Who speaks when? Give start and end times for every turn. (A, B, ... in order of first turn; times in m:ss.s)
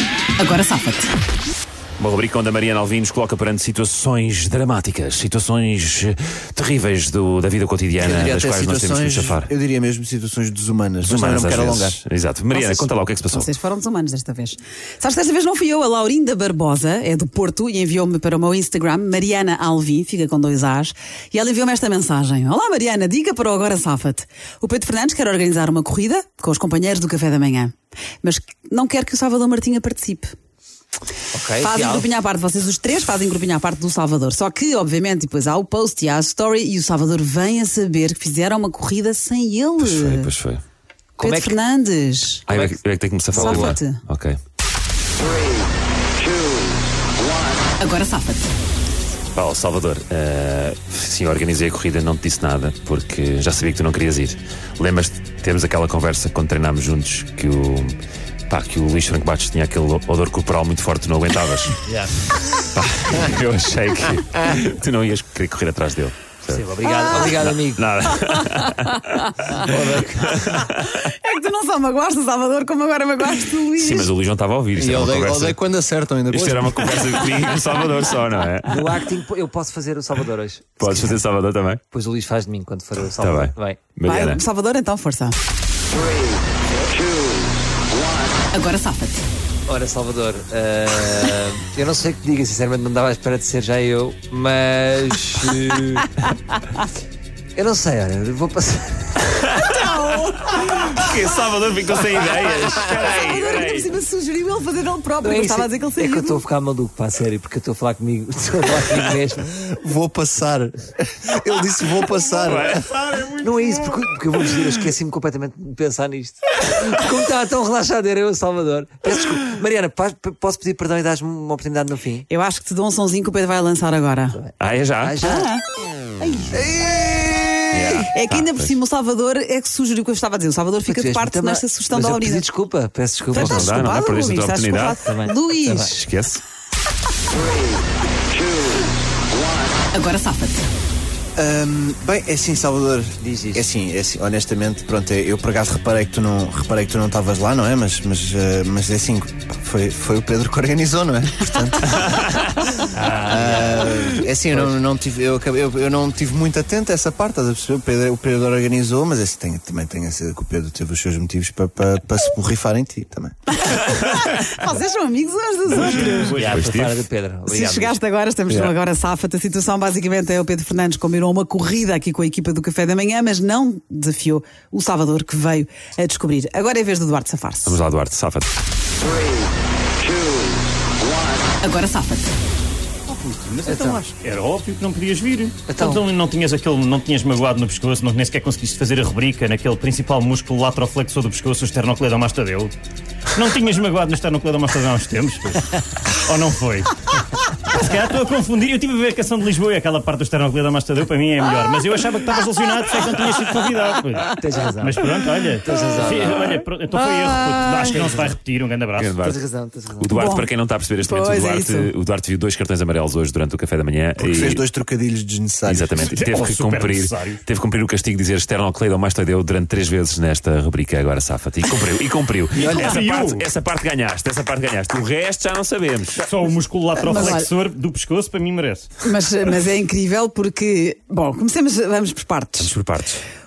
0:00.4-0:01.1 A
0:02.0-0:09.5 B
0:08.0-0:12.0 C
0:11.0-0:13.5 B
0:12.5-0:30.3 A
0:31.3-0:32.1 D
0:31.6-0:40.3 A
0:39.8-0:40.6 B
0:41.2-0:41.6 D
0:41.2-0:42.5 A
0:42.5-0:44.4 B
0:42.5-0:42.8 D
0:43.3-0:43.8 D
0:43.3-0:44.0 A
0:47.8-0:48.5 A
0:49.4-0:58.0 B
0:58.5-1:01.8 B
1:01.9-1:02.2 D
1:02.6-1:09.2 B
1:06.5-1:07.8 D
1:06.8-1:07.3 A
1:08.1-1:09.5 A
1:09.5-1:10.7 D
1:10.0-1:10.9 B
1:10.8-1:14.1 A
1:13.8-1:15.7 B
1:14.8-1:17.1 C
1:16.3-1:18.9 B
1:18.7-1:21.2 D
1:20.8-1:21.8 B
1:21.9-1:23.8 D
1:23.2-1:24.4 B
1:24.1-1:25.4 A
1:28.5-1:29.3 A
1:29.7-1:36.1 D
1:37.6-1:39.3 D
1:39.5-1:41.2 A
1:40.6-1:43.9 B
1:42.7-1:46.4 A
1:45.2-1:49.6 D
1:49.5-1:52.9 C
1:52.4-1:52.8 B
1:52.9-1:53.4 E
1:53.4-2:02.3 D
2:02.3-2:04.4 A
2:04.4-2:05.5 D
2:04.6-2:05.4 B
2:05.2-2:05.6 A
2:06.2-2:06.6 A
2:06.5-2:07.9 C
2:07.7-2:08.8 B
2:08.1-2:12.5 A
2:10.9-2:13.7 D
2:13.3-2:15.9 A
2:13.3-2:15.0 B
2:15.0-2:16.0 D
2:15.8-2:16.4 B
2:19.9-2:20.7 A
2:21.4-2:32.0 C
2:23.2-2:23.7 D
2:31.9-2:32.6 B
2:32.9-2:33.9 D
2:33.2-2:43.4 C
2:34.5-2:34.8 D
2:43.6-2:46.5 A
2:45.8-2:46.6 E
2:46.3-2:48.0 D
2:46.5-2:47.0 B
2:47.5-2:57.8 A
2:57.7-2:58.5 B
3:01.6-3:02.3 A
3:03.1-3:12.7 E
3:03.7-3:04.0 D
3:05.7-3:06.1 D
3:13.3-3:29.2 E
3:24.3-3:25.1 D
3:25.6-3:26.6 D
3:27.0-3:27.9 A
3:27.8-3:28.4 D
3:29.0-3:29.4 B
3:29.2-3:30.1 D
3:30.0-3:34.6 B
3:30.1-3:31.9 A
3:34.2-3:36.1 C
3:35.7-3:46.3 B
3:36.0-3:37.4 E
3:42.5-3:43.5 E
3:46.2-3:49.0 E
3:47.1-3:47.5 A
3:49.0-3:52.7 A
3:52.6-3:53.2 B